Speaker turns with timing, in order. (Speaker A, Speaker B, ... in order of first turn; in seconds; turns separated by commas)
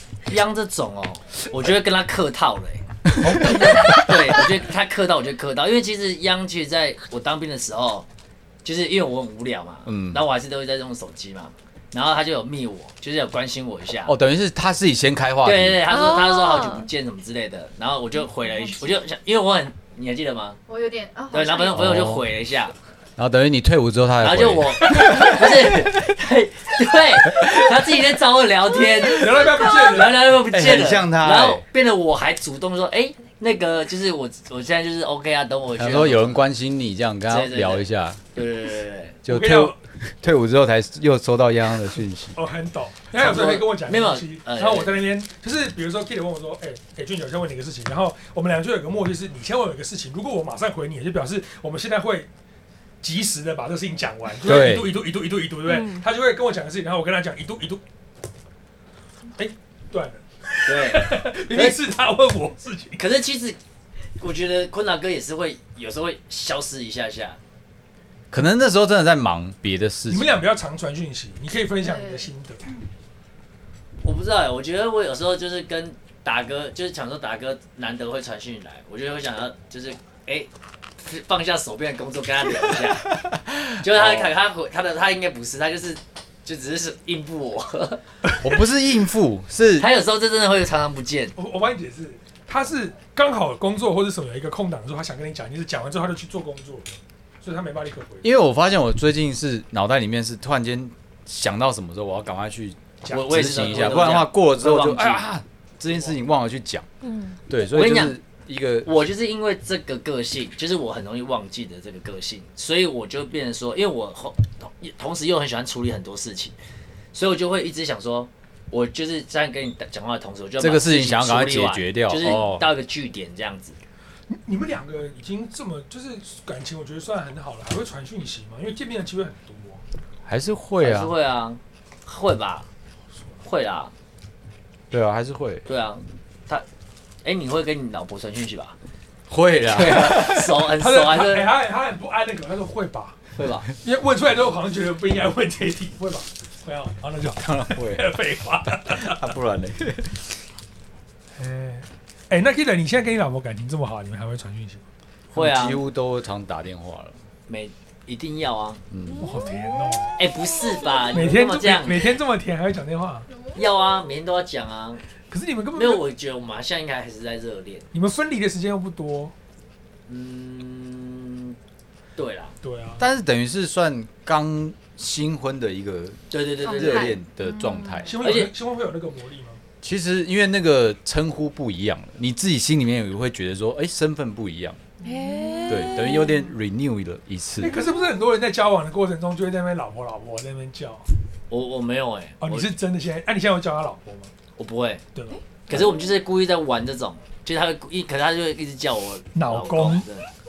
Speaker A: 0.3-2.8, Speaker B: 3.2-4.0, Speaker C: 3.2-4.2, Speaker A: 3.4-8.1, Speaker A: 8.6-14.1, Speaker C: 9.9-10.2, Speaker C: 14.1-15.9, Speaker A: 15.4-20.6, Speaker D: 15.9-16.9, Speaker E: 20.7-21.8, Speaker A: 21.3-22.7, Speaker C: 21.8-22.3, Speaker C: 23.2-25.9, Speaker A: 24.2-36.5, Speaker B: 29.1-30.3, Speaker C: 30.5-31.6, Speaker C: 35.8-38.2, Speaker A: 37.3-39.2, Speaker C: 39.2-42.4, Speaker B: 39.3-39.8, Speaker B: 42.3-52.3, Speaker A: 43.1-45.0, Speaker B: 53.0-57.8, Speaker C: 54.4-55.0, Speaker D: 55.7-56.0, Speaker B: 59.4-63.0, Speaker A: 60.6-61.8, Speaker A: 63.0-63.6, Speaker A: 64.2-67.4, Speaker C: 68.3-70.4, Speaker B: 70.1-72.7, Speaker E: 71.8-72.3, Speaker A: 74.0-88.0, Speaker C: 83.8-84.3, Speaker C: 88.4-89.9, Speaker A: 89.8-91.3, Speaker B: 91.4-98.3, Speaker C: 98.2-106.9, Speaker B: 103.1-104.0, Speaker A: 103.1-105.3, Speaker D: 107.0-107.4, Speaker C: 107.5-108.9, Speaker A: 107.7-108.2, Speaker A: 108.8-116.6, Speaker A: 117.1-123.8, Speaker C: 120.6-122.7, Speaker B: 124.3-129.8, Speaker C: 130.2-131.1, Speaker A: 130.8-132.7, Speaker A: 133.4-133.9, Speaker C: 134.9-135.7, Speaker A: 135.7-136.7, Speaker A: 137.2-138.8, Speaker C: 139.3-140.7, Speaker A: 139.6-141.5, Speaker B: 140.7-143.2, Speaker A: 143.3-143.7, Speaker B: 143.8-149.3, Speaker C: 147.4-148.1, Speaker C: 148.8-150.3, Speaker B: 151.4-154.8, Speaker A: 155.3-155.8, Speaker C: 155.3-157.2, Speaker A: 157.5-158.8, Speaker C: 158.9-159.3, Speaker D: 159.2-159.7, Speaker B: 159.2-160.2, Speaker A: 160.2-162.2, Speaker B: 161.1-163.3, Speaker E: 163.3-163.6, Speaker A: 163.6-165.0, Speaker B: 165.3-166.1, Speaker A: 165.7-167.9, Speaker B: 167.9-169.3, Speaker A: 170.1-171.6, Speaker A: 172.2-172.6, Speaker B: 172.6-173.1, Speaker C: 173.0-178.4, Speaker A: 176.3-177.2, Speaker E: 176.6-178.1, Speaker B: 178.1-179.6, Speaker A: 178.2-178.5, Speaker C: 179.8-184.8, Speaker E: 185.0-186.2, Speaker D: 185.0-186.4, Speaker C: 185.7-187.7, Speaker B: 187.6-191.1, Speaker E: 187.7-188.0, Speaker A: 191.5-192.7, Speaker B: 192.4-194.3, Speaker A: 194.6-195.0, Speaker B: 195.2-195.4, Speaker E: 195.3-195.8, Speaker A: 195.7-200.3, Speaker B: 199.3-200.1